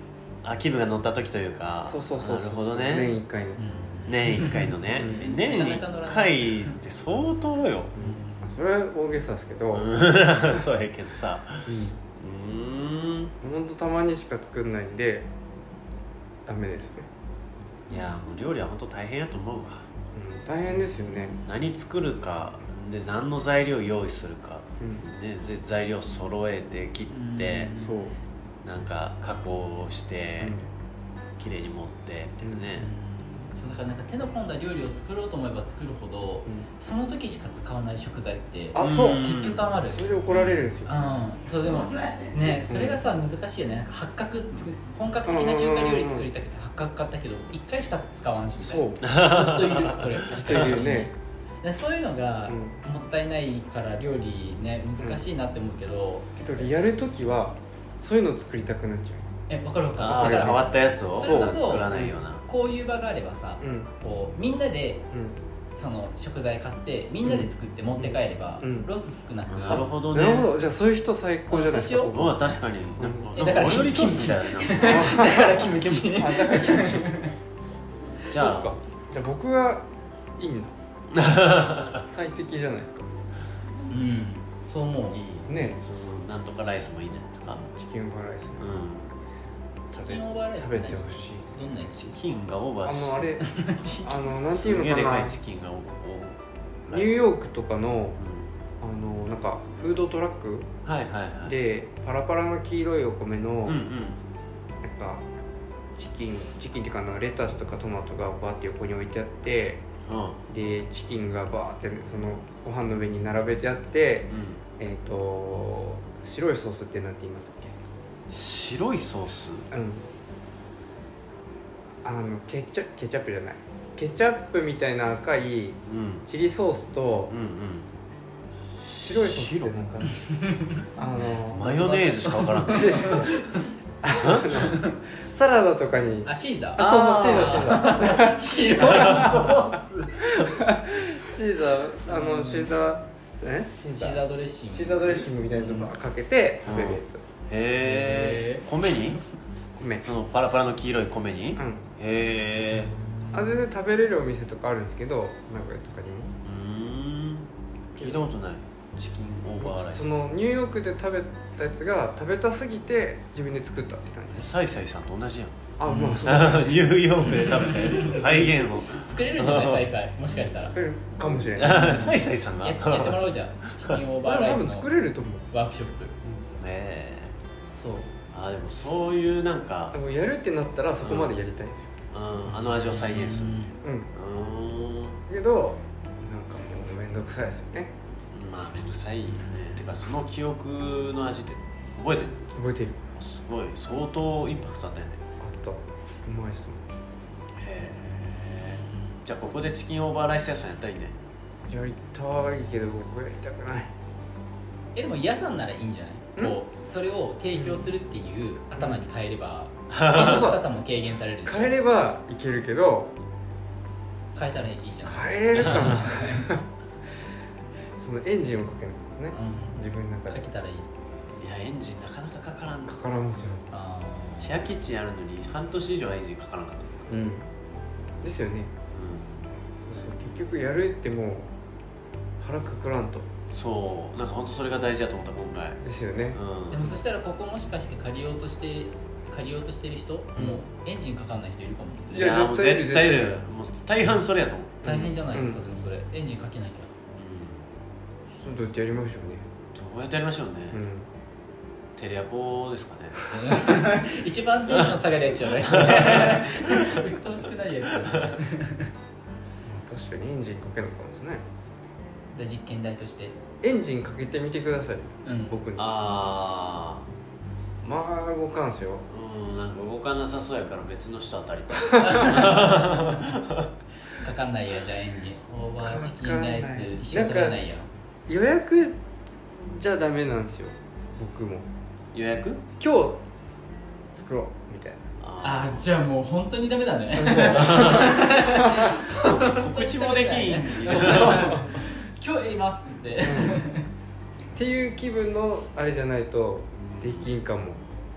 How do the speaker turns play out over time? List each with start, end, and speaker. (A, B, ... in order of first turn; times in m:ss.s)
0:00.4-0:03.2 A
0:01.8-0:03.6 B
0:03.6-0:06.8 C
0:04.0-0:07.9 A
0:04.9-0:05.3 B
0:08.0-0:09.9 B
0:08.0-0:08.5 C
0:09.7-0:13.3 A
0:11.6-0:12.0 B
0:13.4-0:15.3 B
0:16.4-0:17.1 B
0:17.9-0:19.9 A
0:20.1-0:21.4 B
0:21.4-0:27.7 A
0:27.1-0:27.9 C
0:27.8-0:28.1 B
0:28.6-0:30.6 A
0:30.4-0:30.6 B
0:31.4-0:32.9 A
0:32.4-0:32.7 B
0:32.8-0:56.3 C
0:38.7-0:40.9 B
0:38.8-0:39.6 A
0:42.5-0:43.0 B
0:45.2-0:46.3 B
0:48.6-0:49.0 B
0:49.0-0:50.8 A
0:50.3-0:51.1 B
0:52.5-0:52.8 B
0:56.4-0:59.3 B
0:59.5-1:05.0 C
1:00.0-1:02.4 A
1:00.1-1:02.1 B
1:03.6-1:03.9 B
1:05.1-1:05.4 B
1:05.7-1:09.9 C
1:07.2-1:08.9 B
1:09.5-1:10.5 A
1:09.7-1:13.4 B
1:11.5-1:12.2 C
1:12.1-1:16.1 A
1:13.4-1:17.3 C
1:14.8-1:17.2 B
1:18.3-1:18.7 A
1:18.3-1:20.8 B
1:21.1-1:22.0 A
1:22.0-1:23.1 B
1:23.9-1:25.2 C
1:25.1-1:27.7 A
1:25.5-1:25.8 B
1:27.7-1:28.7 B
1:28.6-1:29.2 A
1:29.9-1:31.4 B
1:29.9-1:32.2 C
1:32.1-1:33.3 A
1:32.8-1:33.4 B
1:33.4-1:34.2 C
1:34.0-1:35.4 B
1:34.5-1:37.3 A
1:36.9-1:38.2 B
1:38.2-1:38.5 A
1:38.8-1:40.7 B
1:40.8-1:41.6 A
1:41.4-1:43.8 B
1:43.6-1:44.2 A
1:44.8-1:45.2 B
1:45.9-1:49.8 B
1:50.0-1:50.4 A
1:50.5-1:57.8 B
1:54.3-1:54.6 A
1:58.3-1:59.7 A
1:59.7-2:00.1 B
2:02.0-2:07.3 B
2:05.9-2:06.3 A
2:07.3-2:07.9 A
2:08.6-2:10.0 A
2:09.0-2:10.3 B
2:10.9-2:11.8 B
2:11.5-2:13.3 A
2:11.5-2:13.7 C
2:12.7-2:13.3 B
2:14.0-2:19.2 B
2:14.2-2:14.7 A
2:14.6-2:15.0 C
2:16.2-2:20.3 C
2:16.8-2:17.8 A
2:18.8-2:19.5 A
2:20.4-2:27.2 B
2:22.1-2:22.7 C
2:24.0-2:25.9 C
2:26.6-2:29.2 A
2:27.8-2:29.1 C
2:29.8-2:30.0 B
2:30.0-2:32.9 A
2:31.6-2:31.8 B
2:33.3-2:36.3 B
2:36.4-2:40.0 A
2:38.0-2:38.2 B
2:39.6-2:44.5 B
2:44.3-2:45.6 A
2:45.8-2:47.1 B
2:45.9-2:46.2 C
2:46.2-2:49.9 A
2:47.3-2:50.7 C
2:48.1-2:48.4 B
2:50.4-2:52.1 B
2:51.5-2:53.3 A
2:51.8-2:54.9 C
2:54.2-2:55.5 B
2:55.5-2:56.1 C
2:56.6-2:57.3 A
2:57.8-2:58.1 B
2:58.3-3:00.0 A
2:59.9-3:01.9 B
3:01.0-3:01.4 A
3:02.1-3:05.2 A
3:02.8-3:03.7 C
3:03.8-3:04.1 B
3:05.3-3:07.9 B
3:08.3-3:12.4 A
3:12.5-3:13.0 B
3:13.1-3:15.2 A
3:15.4-3:16.8 B
3:17.6-3:21.1 A
3:21.7-3:23.9 B
3:24.9-3:31.7 C
3:30.1-3:30.6 B
3:30.1-3:30.4 A
3:31.4-3:33.1 B
3:34.3-3:36.6 C
3:35.0-3:36.7 B
3:38.0-3:40.4 B
3:39.3-3:40.9 C
3:41.4-3:43.0 A
3:42.9-3:43.6 B
3:43.7-3:44.6 C
3:44.4-3:47.0 A
3:47.1-3:47.5 B
3:48.2-3:48.7 B
3:48.9-3:49.4 A
3:49.9-3:51.5 B
3:52.4-3:53.3 B
3:53.5-3:55.8 A
3:55.8-3:56.4 B
3:56.3-3:57.0 A
3:56.7-4:02.3 C
4:00.4-4:00.6 B
4:02.1-4:03.4 B
4:02.1-4:04.8 A
4:04.8-4:05.6 B
4:04.8-4:06.9 C
4:07.2-4:07.6 A
4:08.3-4:09.4 B
4:09.7-4:10.8 A
4:10.7-4:11.1 B
4:12.0-4:13.2 A
4:13.3-4:18.9 C
4:15.6-4:17.1 A
4:18.0-4:18.4 A
4:19.6-4:21.4 B
4:22.3-4:23.4 C
4:23.6-4:26.0 B
4:25.2-4:25.6 C
4:25.8-4:27.0 A
4:27.8-4:29.0 B
4:29.1-4:33.7 A
4:31.9-4:32.7 B
4:32.0-4:33.3 C
4:34.1-4:37.9 C
4:35.8-4:37.6 B
4:38.3-4:39.0 B
4:39.5-4:41.7 B
4:42.1-4:42.6 A
4:42.8-4:43.2 B
4:44.1-4:45.1 B
4:45.2-4:45.8 A
4:45.4-4:53.9 C
4:47.1-4:48.9 B
4:47.5-4:48.4 A
4:49.1-4:51.7 A
4:50.8-4:51.7 B
4:53.2-4:53.6 B
4:54.5-4:57.8 B
4:56.8-4:57.3 A